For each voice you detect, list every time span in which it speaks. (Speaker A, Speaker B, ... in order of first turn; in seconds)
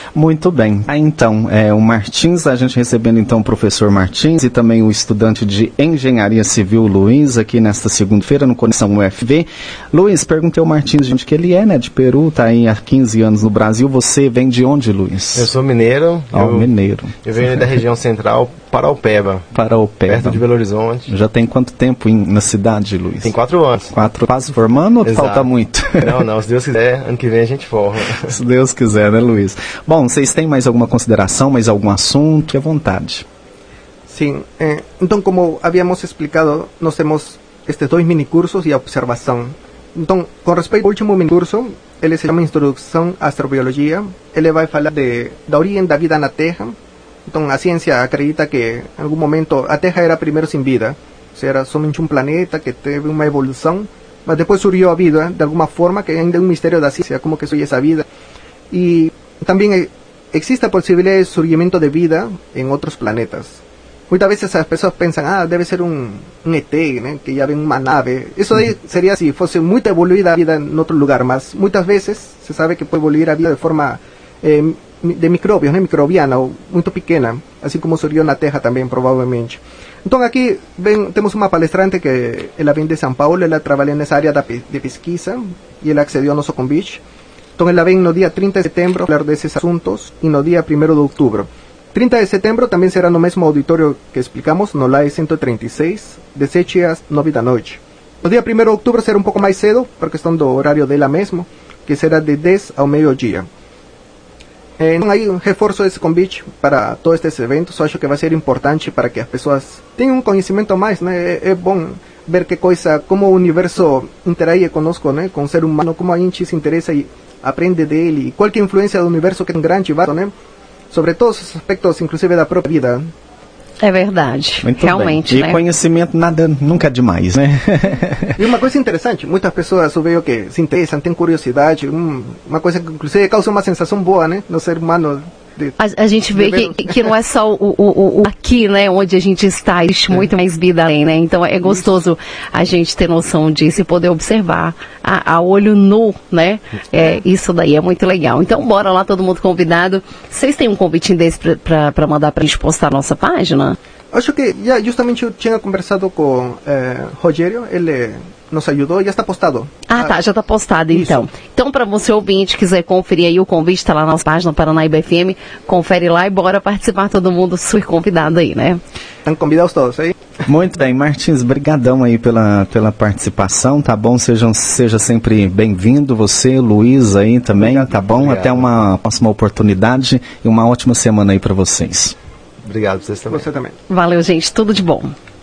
Speaker A: 0.1-15.5, 16.3-17.2, 19.5-20.4, 21.1-23.3, 23.9-26.2, 28.2-33.2, 124.6-128.4, 170.4-182.1
Speaker B: 15.3-16.7, 17.2-19.5, 20.1-21.1, 23.2-23.9, 25.0-28.3, 178.1-178.8, 182.6-183.4
Speaker C: 34.1-46.8, 47.3-58.0, 58.7-87.0, 87.6-103.5, 104.8-120.3, 120.9-123.1, 128.4-135.8, 136.3-137.1, 154.1-160.2, 160.9-161.2, 169.2-170.2, 177.6-177.9, 183.3-183.8
Speaker D: 123.8-125.6, 135.8-153.8, 159.9-168.8, 183.9-185.1